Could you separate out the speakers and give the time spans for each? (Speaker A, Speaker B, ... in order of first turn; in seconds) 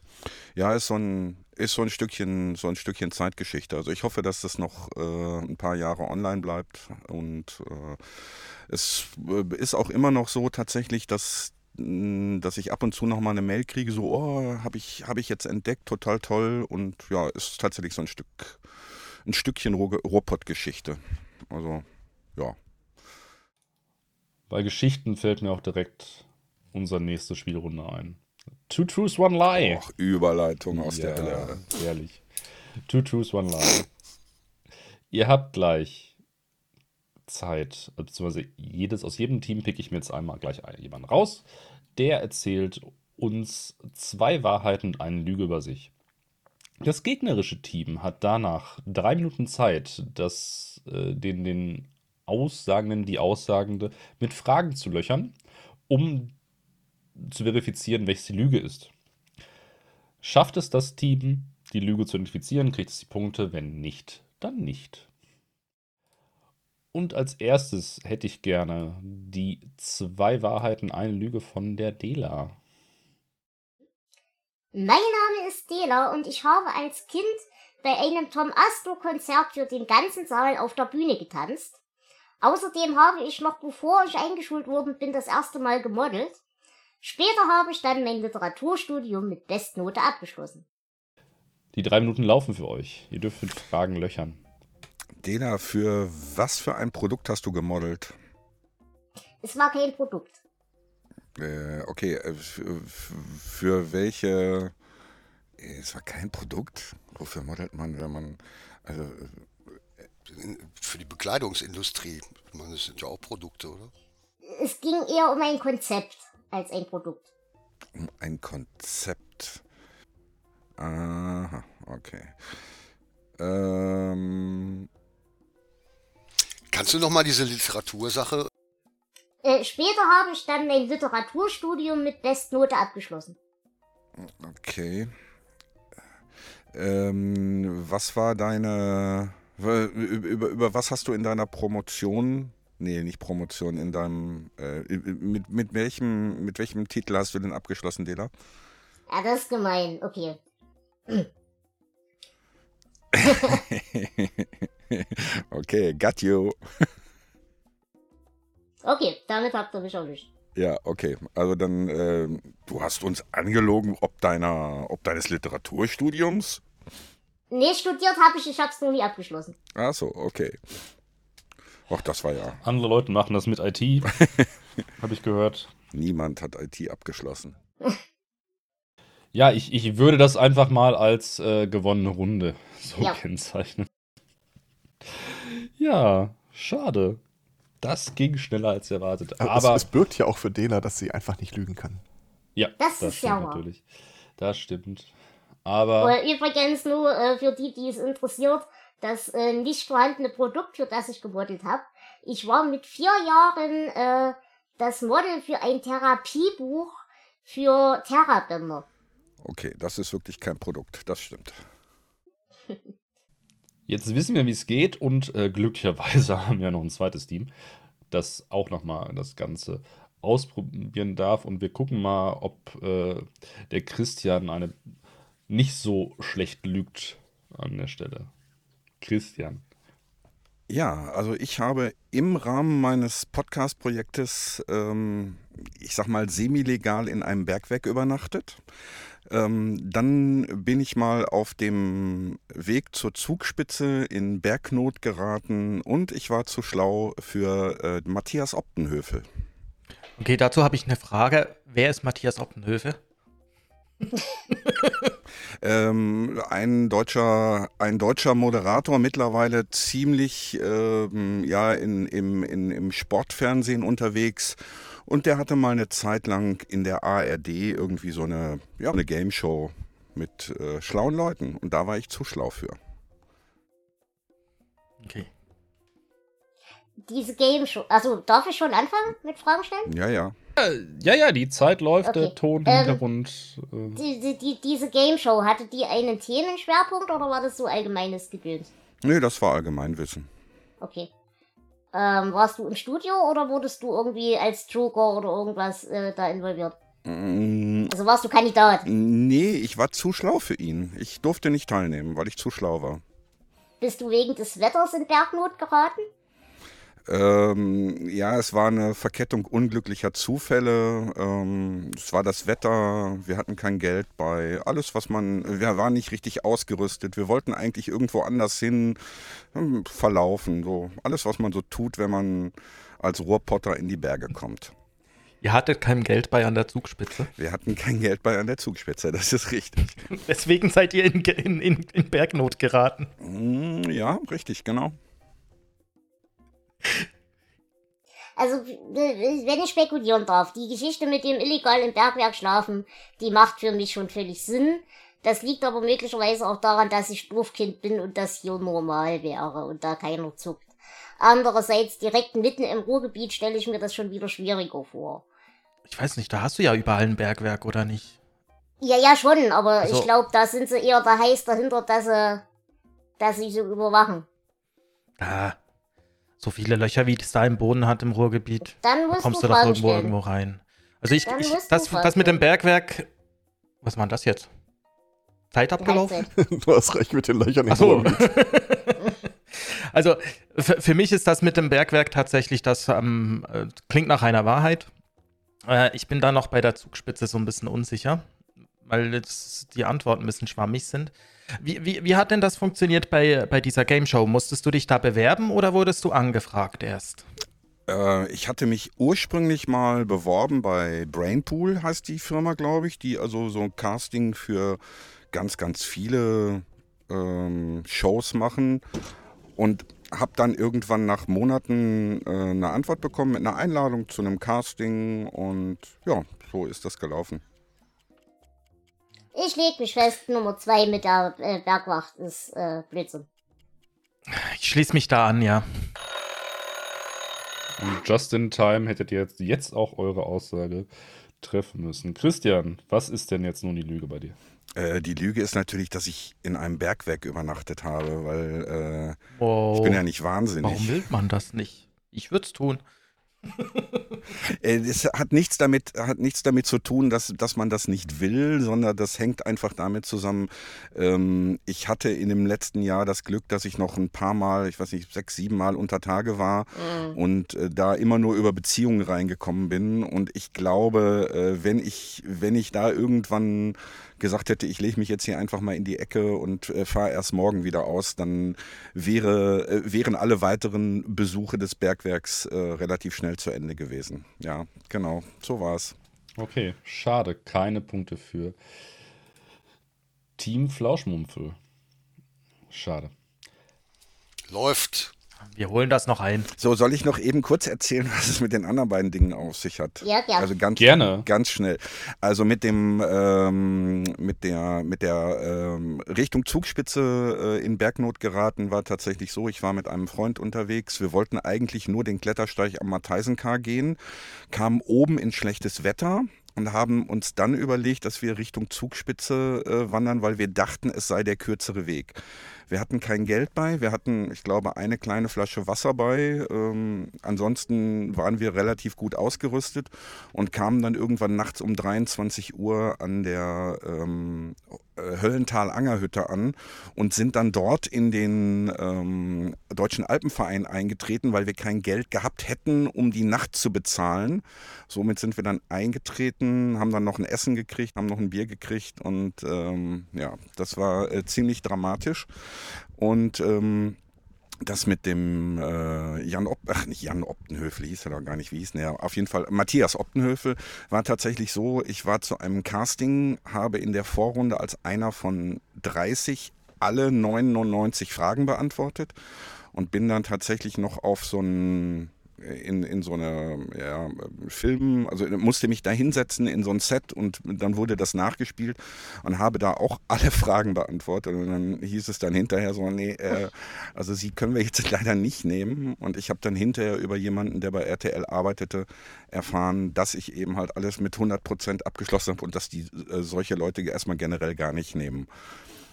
Speaker A: 0.5-8.0, 8.7-18.6, 19.2-21.8, 29.5-31.6, 95.2-98.1, 101.4-104.7, 105.6-109.4, 118.0-119.6, 120.8-122.3, 123.4-124.9, 134.2-135.1, 136.7-148.3, 153.1-156.6, 160.5-166.6, 169.8-170.6, 171.9-172.6, 175.9-177.6, 209.4-211.6, 230.7-238.6, 239.3-249.3, 255.6-272.8, 279.9-280.3, 289.0-290.3, 297.0-297.9, 298.8-303.0, 307.1-324.7, 327.4-330.0, 333.2-334.9, 397.9-404.8, 405.3-408.8, 409.6-417.4, 434.8-439.2, 439.7-441.0, 444.4-475.9, 486.6-504.0, 504.5-512.1, 512.7-542.3, 543.0-544.0, 544.6-559.1, 559.7-585.3
Speaker B: 24.5-29.8, 30.7-32.2, 32.9-33.9, 35.1-36.1, 37.3-41.4, 42.0-45.9, 46.8-55.3, 55.9-56.3, 57.2-58.9, 60.2-65.1, 66.9-72.5, 91.7-94.4, 172.6-174.2, 175.0-175.7, 179.3-183.9, 185.1-187.2, 187.8-189.9, 192.6-193.8, 194.4-195.1, 195.6-196.2, 213.9-217.5, 218.1-224.7, 225.5-228.3, 229.0-229.6, 280.6-284.0, 427.8-430.9, 431.4-434.4, 476.4-478.6, 480.4-481.6, 482.7-483.1, 490.8-491.3
Speaker C: 74.7-81.8, 82.4-86.4, 87.0-90.6, 99.4-100.4, 114.4-117.2, 129.4-133.4, 149.1-150.4, 158.8-160.3, 167.5-169.5, 192.8-193.6, 196.0-208.8, 277.0-279.9, 282.0-283.0, 283.9-288.7, 290.8-291.1, 291.9-296.8, 297.9-298.9, 303.8-306.1, 338.4-350.7, 351.2-355.2, 358.8-362.4, 363.2-364.2, 368.8-370.1, 371.2-372.4, 375.8-376.3, 419.4-423.2, 490.0-490.5
Speaker D: 110.3-113.9, 126.7-128.5, 484.5-485.1
Speaker E: 189.4-192.0, 376.3-378.3
Speaker F: 250.2-253.0, 254.5-255.1, 275.0-275.3, 325.4-327.3, 330.1-333.1, 355.9-358.1, 359.8-360.1, 365.2-365.6, 366.4-373.1, 373.8-374.5, 375.5-376.3, 377.7-384.9, 385.7-388.2, 388.9-397.2, 424.3-425.7, 439.4-440.0, 440.6-442.8, 443.6-443.8, 485.5-486.5